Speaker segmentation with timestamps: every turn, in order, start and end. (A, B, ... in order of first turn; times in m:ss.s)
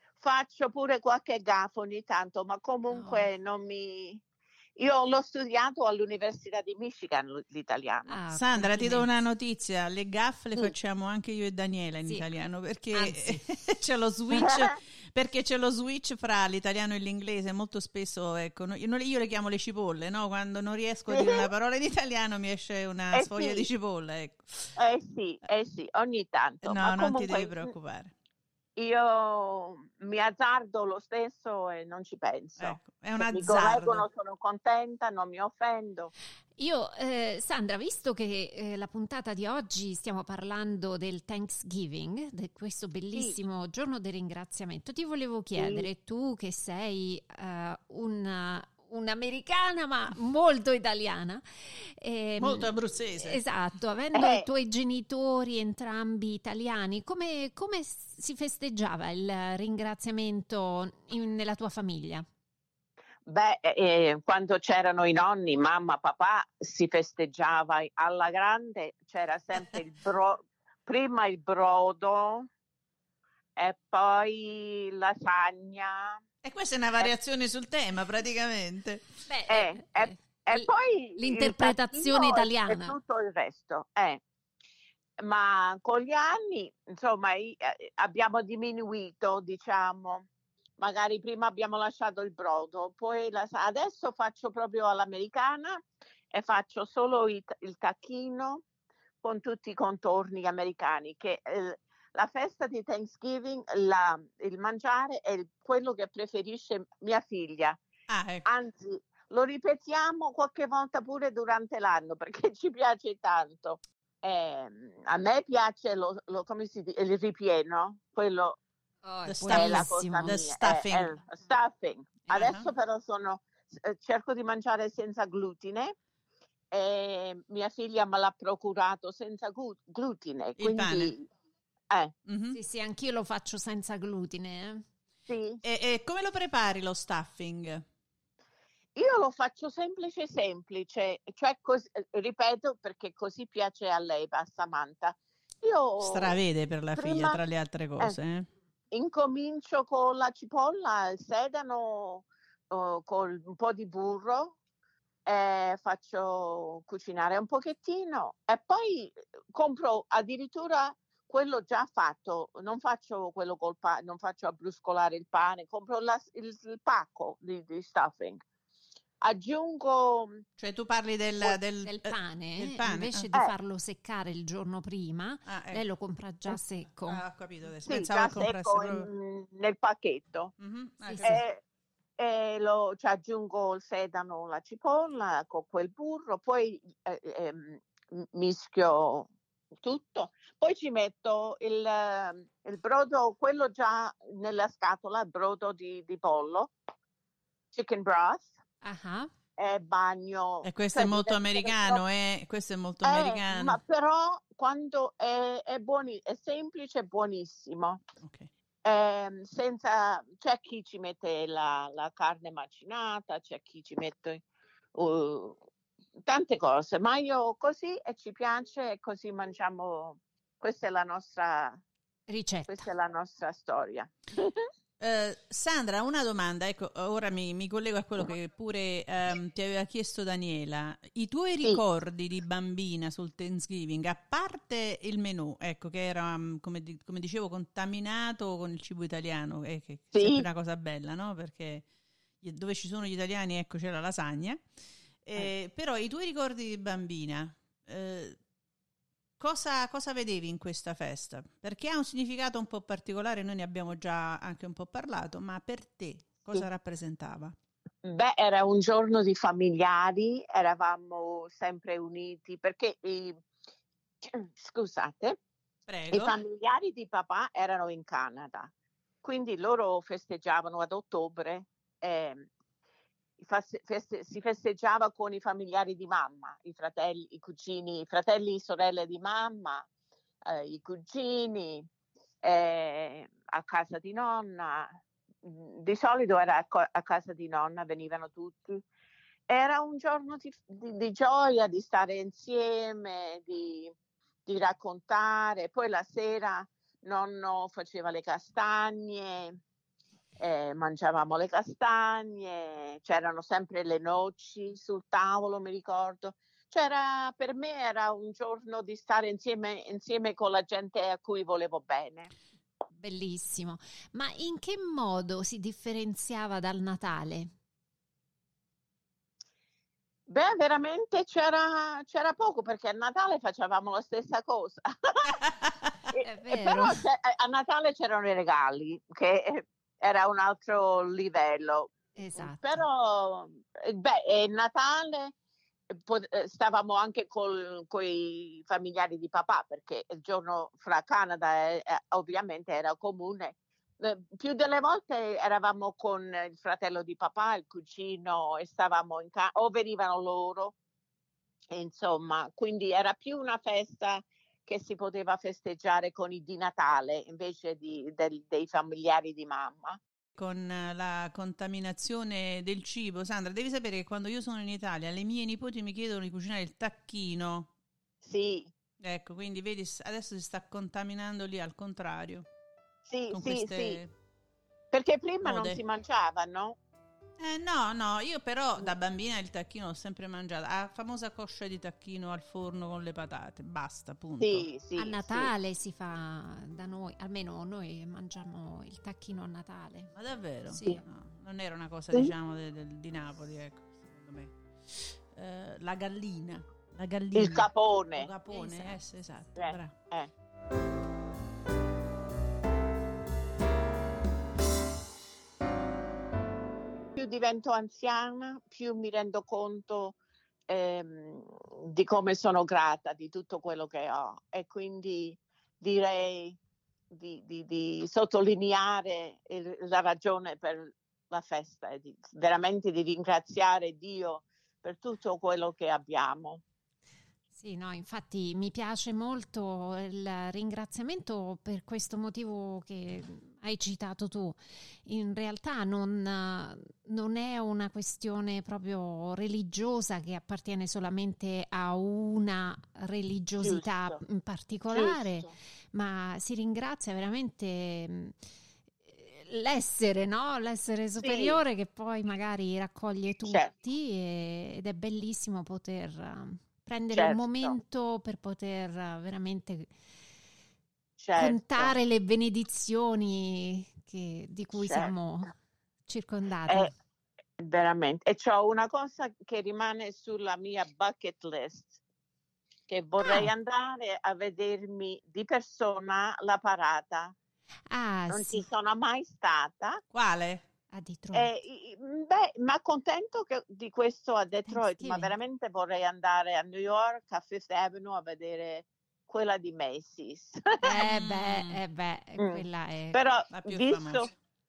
0:00.2-0:04.2 A
0:02.9-0:03.3 B
0:04.8-0:08.2 A
0:08.1-0:09.1 B
0:08.3-0:24.7 C
0:12.9-0:13.4 B
0:14.4-0:14.8 A
0:21.1-0:21.5 A
0:23.1-0:23.7 A
0:24.8-0:27.7 A
0:26.6-0:28.1 C
0:28.8-0:36.1 A
0:32.6-0:34.1 C
0:36.6-1:02.3 B
0:45.6-0:45.9 A
0:52.4-0:53.4 C
0:54.2-0:54.5 A
1:03.3-1:12.5 A
1:13.6-1:16.2 A
1:16.4-1:19.1 C
1:19.3-1:23.0 B
1:19.5-1:24.2 A
1:25.2-1:30.3 A
1:30.8-1:35.8 A
1:36.3-1:38.6 A
1:39.2-1:47.8 A
1:48.1-1:48.4 C
1:48.4-1:58.6 A
1:59.0-2:00.4 B
1:59.3-2:01.1 C
1:59.5-2:05.9 A
2:02.3-2:02.7 C
2:06.7-2:11.3 A
2:10.6-2:11.1 C
2:12.3-2:12.6 C
2:12.5-2:14.8 B
2:15.3-2:15.6 A
2:15.6-2:17.8 C
2:19.0-2:26.4 A
2:26.0-2:28.5 C
2:27.0-2:27.4 A
2:28.9-2:34.6 A
2:35.3-2:48.4 A
2:49.2-2:50.4 A
2:50.6-2:53.3 C
2:51.8-2:57.2 B
2:55.5-2:55.8 C
2:57.1-2:59.1 C
2:57.9-3:00.5 A
3:00.6-3:01.4 C
3:01.1-3:01.4 B
3:01.2-3:01.6 A
3:02.2-3:09.3 A
3:09.8-3:16.7 A
3:17.7-3:18.5 A
3:18.8-3:19.3 B
3:19.6-3:22.0 A
3:20.6-3:23.8 C
3:23.0-3:28.0 A
3:28.2-3:28.5 C
3:28.8-3:34.4 A
3:35.0-3:35.6 A
3:36.2-3:41.8 A
3:42.3-3:42.9 B
3:42.7-3:44.7 A
3:45.0-4:01.9 C
4:00.1-4:00.5 A
4:02.4-4:04.6 C
4:05.2-4:08.4 C
4:09.4-4:17.6 C
4:18.0-4:23.4 A
4:24.2-4:25.4 A
4:25.9-4:26.4 C
4:26.1-4:28.7 A
4:29.2-4:32.5 A
4:33.4-4:39.9 A
4:40.5-4:41.9 A
4:42.4-4:44.9 A
4:45.4-4:48.8 A
4:49.5-4:53.9 A
4:54.5-4:59.6 A
5:00.4-5:12.3 A
5:13.0-5:17.5 B
5:20.3-5:25.5 A
5:25.4-5:25.9 C
5:26.1-5:35.3 A
5:26.2-5:27.0 B
5:32.2-5:32.8 B
5:35.9-5:50.8 A
5:51.7-6:00.0 A
6:00.4-6:07.7 C
6:08.2-6:08.7 A
6:09.0-6:12.5 C
6:13.1-6:14.0 A
6:13.3-6:14.1 C
6:14.9-6:16.8 A
6:15.4-6:15.8 C
6:17.4-6:24.7 C
6:24.4-6:25.5 A
6:25.0-6:30.1 B
6:30.1-6:39.9 C
6:30.7-6:31.0 B
6:37.4-6:38.3 A
6:38.5-6:39.0 B
6:39.6-6:40.3 A
6:47.2-6:50.2 A
6:50.7-6:56.6 A
6:57.1-7:06.6 A
7:07.6-7:28.4 B
7:23.6-7:24.2 A
7:24.9-7:25.5 A
7:29.1-7:39.9 B
7:31.2-7:31.6 A
7:37.1-7:37.8 A
7:41.2-7:42.0 A
7:41.4-7:45.5 B
7:44.7-7:45.1 A
7:46.1-7:46.9 B
7:47.6-7:52.0 A
7:52.9-7:57.3 A
7:53.2-7:53.5 B
7:57.9-7:58.6 B
7:58.3-8:00.0 A
8:00.1-8:00.6 C
8:00.9-8:01.5 B
8:01.3-8:11.0 A
8:04.7-8:05.3 B
8:10.8-8:13.2 B
8:11.0-8:11.8 C
8:12.4-8:14.3 A
8:13.5-8:14.3 C